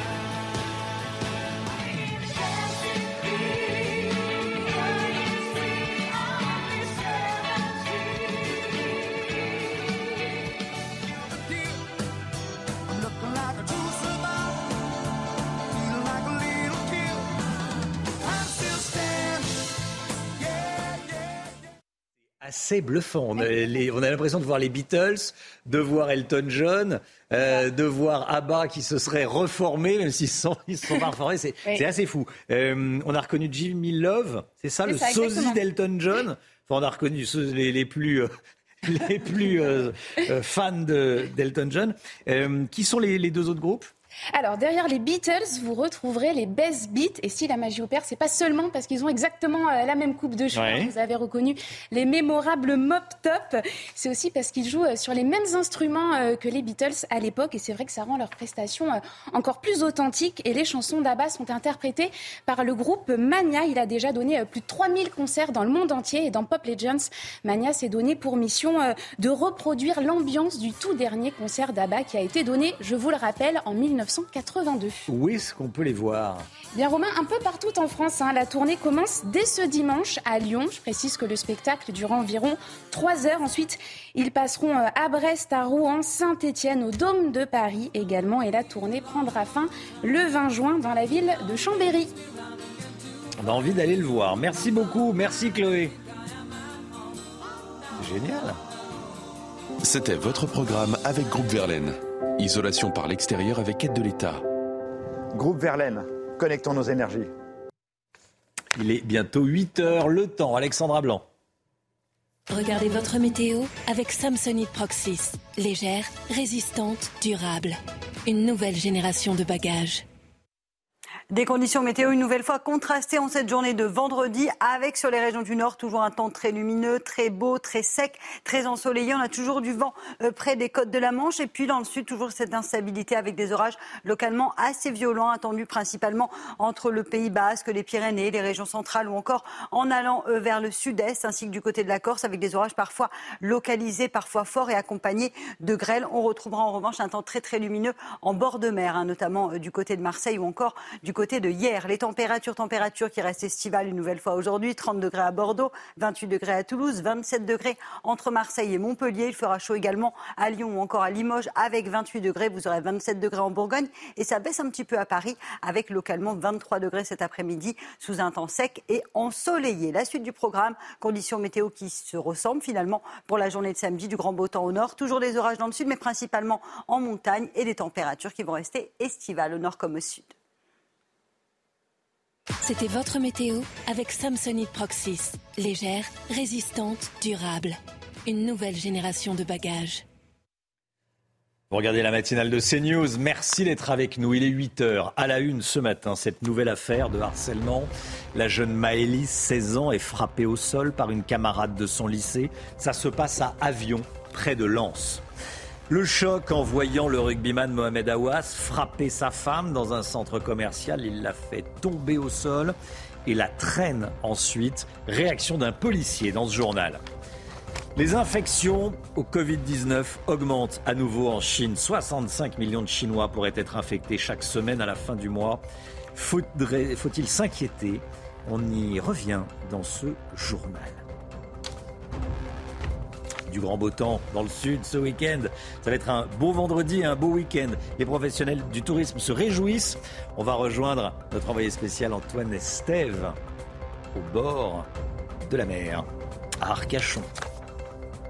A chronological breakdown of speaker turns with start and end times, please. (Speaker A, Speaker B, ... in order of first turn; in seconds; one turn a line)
Speaker A: 22.4-38.3
Speaker B: 34.9-35.6
Speaker A: 38.8-43.9
Speaker B: 44.3-75.1
Speaker A: 50.5-50.9
Speaker A: 75.1-76.5
Speaker B: 76.7-92.1
Speaker A: 93.4-96.0
Speaker A: 98.0-98.6
Speaker C: 99.8-104.5
Speaker D: 105.3-107.3
Speaker A: 108.8-111.2
Speaker E: 112.5-120.0
Speaker F: 121.3-180.3
Speaker E: 182.6-190.0
Speaker A: 191.7-205.2
Speaker A: 205.9-212.8
Speaker A: 213.3-217.0
Speaker A: 218.0-225.6
Speaker A: 226.1-231.0
Speaker A: 233.5-243.4
Speaker A: 244.1-244.9
Speaker A: 245.4-246.1
Speaker A: 246.6-247.3